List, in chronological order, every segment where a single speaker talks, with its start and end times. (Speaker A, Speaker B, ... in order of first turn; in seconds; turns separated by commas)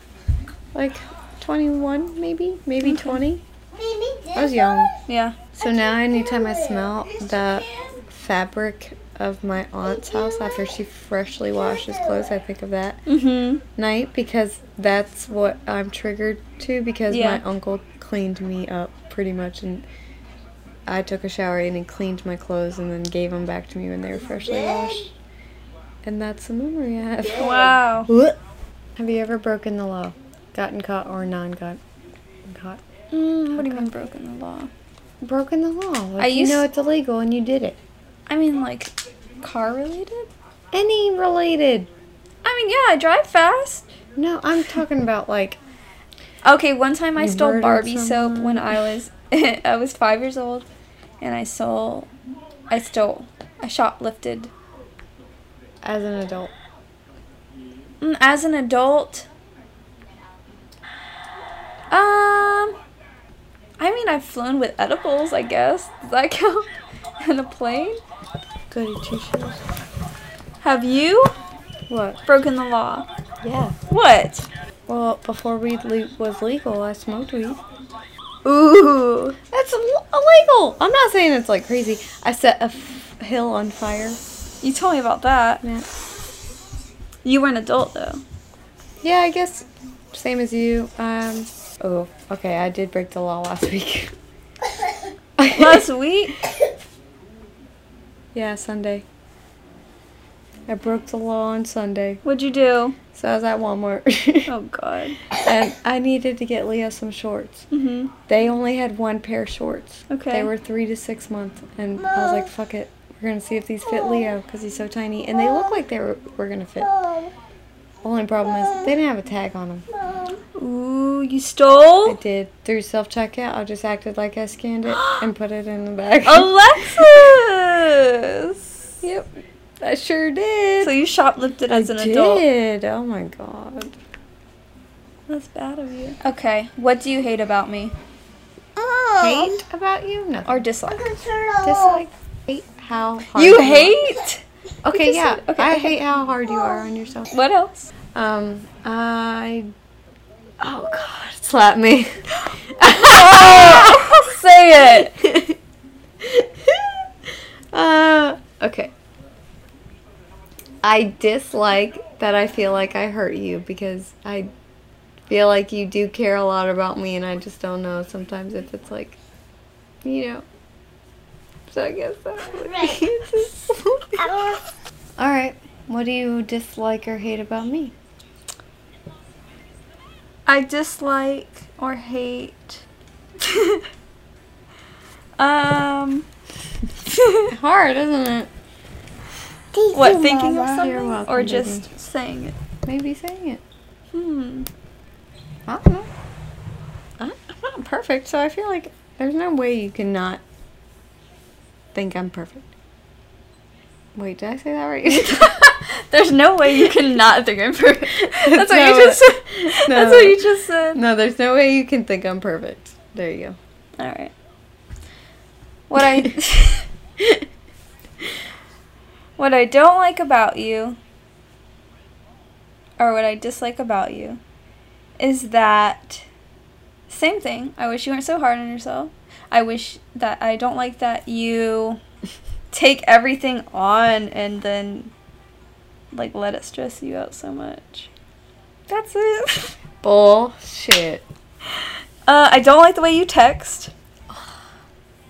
Speaker A: 0.7-3.4, Speaker B: 2.8-3.2, Speaker C: 3.7-4.9, Speaker A: 4.3-4.9, Speaker B: 5.1-5.4, Speaker A: 5.6-13.0, Speaker C: 5.6-7.9, Speaker C: 10.1-10.6, Speaker C: 11.7-12.1, Speaker B: 13.1-13.6, Speaker A: 13.8-19.9, Speaker B: 17.1-17.4, Speaker A: 20.9-25.1, Speaker A: 26.0-28.4, Speaker B: 27.4-28.1, Speaker A: 29.0-31.8, Speaker A: 32.5-32.8, Speaker B: 33.1-34.7, Speaker A: 33.5-33.9, Speaker A: 35.2-37.8, Speaker B: 36.2-36.6, Speaker B: 38.3-40.3, Speaker A: 40.7-41.9, Speaker B: 42.4-43.9, Speaker A: 44.2-45.6, Speaker B: 46.4-50.7, Speaker A: 47.2-48.8, Speaker B: 51.2-52.1, Speaker B: 52.7-54.5, Speaker A: 55.8-56.5, Speaker B: 58.0-59.3, Speaker B: 61.9-62.8, Speaker B: 63.8-66.7, Speaker B: 67.2-68.0, Speaker A: 68.7-69.6, Speaker B: 70.6-71.3, Speaker A: 71.9-72.2, Speaker B: 72.3-73.1, Speaker A: 73.4-73.8, Speaker B: 73.9-74.5, Speaker A: 74.9-77.6, Speaker B: 78.5-79.4, Speaker A: 79.5-84.2, Speaker B: 84.6-85.6, Speaker A: 85.6-85.9, Speaker B: 87.2-88.2, Speaker A: 89.0-94.1, Speaker A: 95.4-95.9, Speaker B: 95.5-96.4, Speaker A: 98.3-99.0, Speaker A: 100.7-102.2, Speaker B: 102.2-103.0, Speaker A: 103.1-104.5, Speaker B: 104.5-105.2, Speaker A: 105.3-107.7, Speaker B: 107.7-108.1, Speaker A: 108.3-116.9, Speaker B: 110.1-110.5, Speaker C: 112.0-112.5, Speaker C: 113.9-114.3, Speaker C: 115.4-115.8, Speaker C: 116.8-117.3, Speaker A: 118.0-119.8, Speaker C: 118.6-118.9, Speaker C: 119.9-120.4, Speaker B: 120.6-122.2, Speaker A: 122.0-127.3, Speaker B: 124.9-125.3, Speaker B: 126.2-128.6, Speaker A: 129.0-130.9, Speaker B: 130.8-132.4, Speaker A: 131.7-133.9, Speaker B: 135.3-137.9, Speaker C: 138.8-139.5, Speaker A: 139.2-140.7, Speaker B: 140.5-141.1, Speaker C: 140.9-142.0, Speaker A: 141.6-144.0, Speaker B: 143.4-146.0, Speaker A: 144.8-147.3, Speaker B: 147.3-147.9, Speaker A: 148.1-149.7, Speaker A: 150.6-154.3, Speaker B: 152.8-155.2, Speaker A: 155.0-155.6, Speaker A: 156.2-157.1, Speaker A: 157.7-158.9, Speaker A: 160.8-164.5, Speaker A: 165.3-169.2, Speaker A: 170.0-170.4, Speaker A: 171.7-174.2, Speaker C: 172.6-173.1, Speaker C: 174.2-174.6, Speaker A: 175.2-177.9, Speaker B: 180.5-182.8, Speaker B: 183.4-183.8, Speaker B: 185.4-186.3, Speaker B: 187.1-187.5, Speaker A: 187.5-188.5, Speaker C: 189.7-191.1, Speaker B: 189.9-192.6, Speaker A: 190.6-191.9, Speaker A: 192.9-193.6, Speaker B: 194.1-194.7, Speaker A: 195.7-196.1, Speaker A: 197.2-200.4, Speaker A: 201.9-202.7, Speaker A: 204.2-205.6, Speaker B: 205.1-211.0, Speaker A: 208.2-213.6, Speaker B: 214.0-214.3, Speaker B: 215.9-216.9, Speaker A: 216.0-216.3, Speaker A: 217.2-217.4, Speaker B: 219.4-221.0, Speaker B: 223.0-224.4, Speaker B: 225.2-226.2, Speaker B: 227.1-232.0, Speaker B: 232.7-235.1, Speaker B: 236.1-238.1, Speaker B: 238.9-239.8, Speaker A: 240.0-241.2, Speaker B: 242.3-243.9